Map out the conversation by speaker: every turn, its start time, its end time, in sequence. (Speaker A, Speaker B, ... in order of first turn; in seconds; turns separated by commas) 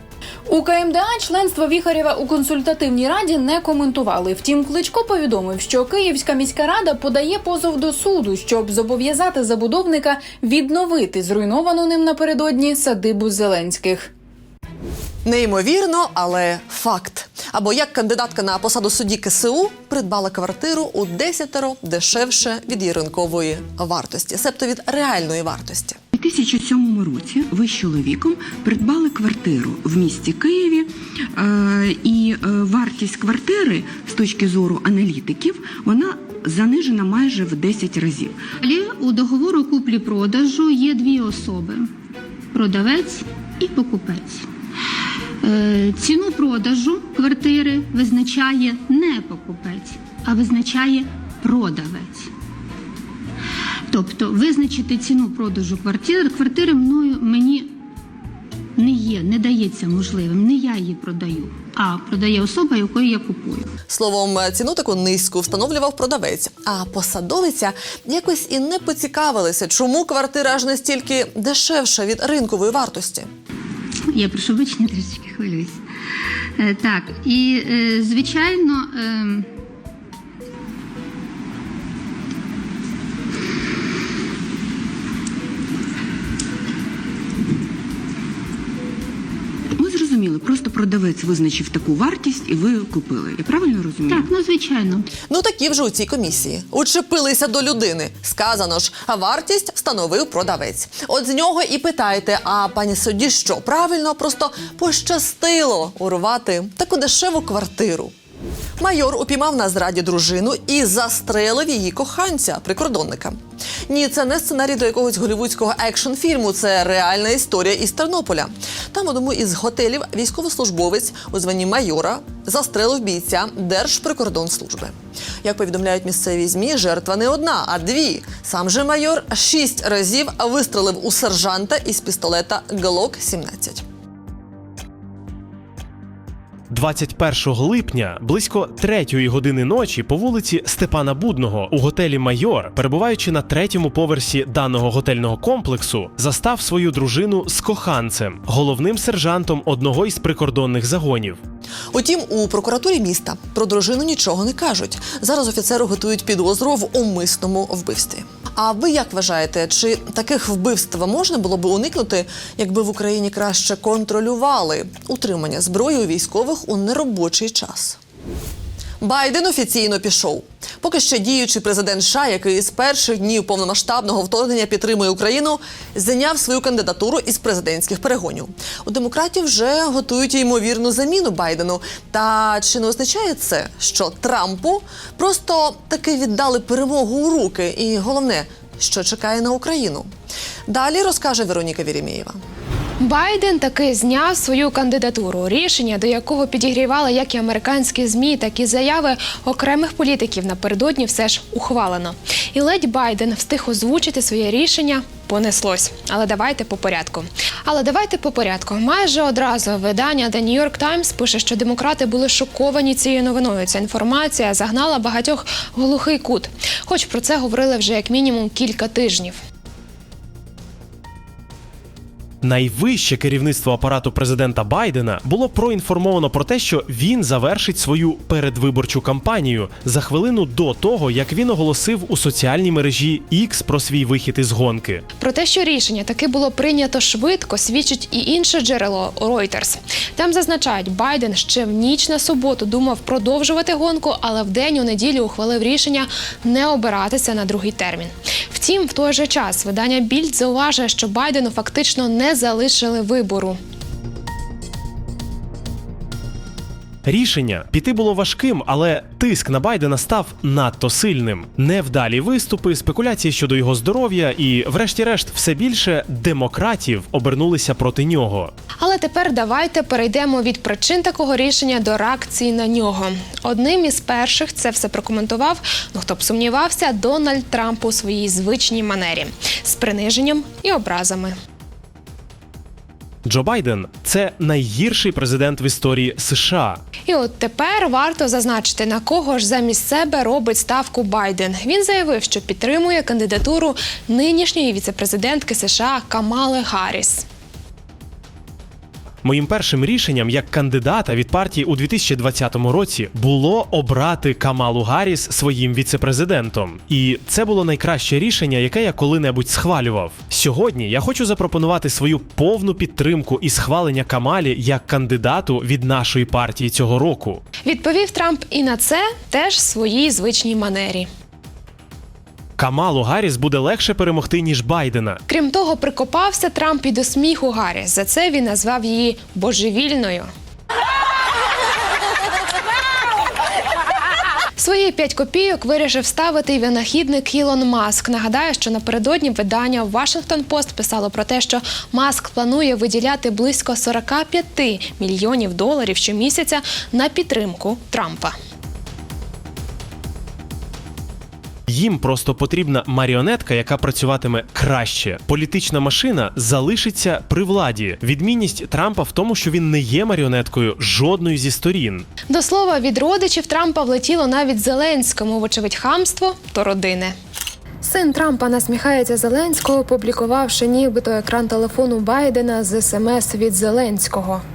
Speaker A: 0.5-14.1, Speaker B: 15.2-26.0, Speaker C: 26.1-38.4, Speaker D: 38.6-41.9, Speaker D: 42.5-44.4, Speaker D: 45.4-52.3, Speaker D: 53.9-57.7, Speaker D: 58.8-63.7, Speaker B: 63.9-73.3, Speaker D: 74.1-75.8, Speaker D: 76.6-79.5, Speaker C: 89.8-94.3, Speaker D: 94.1-95.1, Speaker B: 95.3-108.1, Speaker B: 108.8-133.8, Speaker E: 136.7-151.4, Speaker B: 151.9-168.0, Speaker B: 169.0-190.1, Speaker B: 190.7-192.4, Speaker F: 193.0-219.4, Speaker E: 222.4-235.0, Speaker F: 235.2-253.6, Speaker E: 257.0-268.5, Speaker F: 268.8-281.3, Speaker E: 283.2-286.8, Speaker F: 287.1-297.2, Speaker E: 299.2-317.4, Speaker F: 317.6-321.1, Speaker E: 322.6-325.2, Speaker F: 325.3-330.3, Speaker F: 334.6-348.3, Speaker E: 351.7-362.1, Speaker F: 362.3-367.1, Speaker F: 367.8-374.4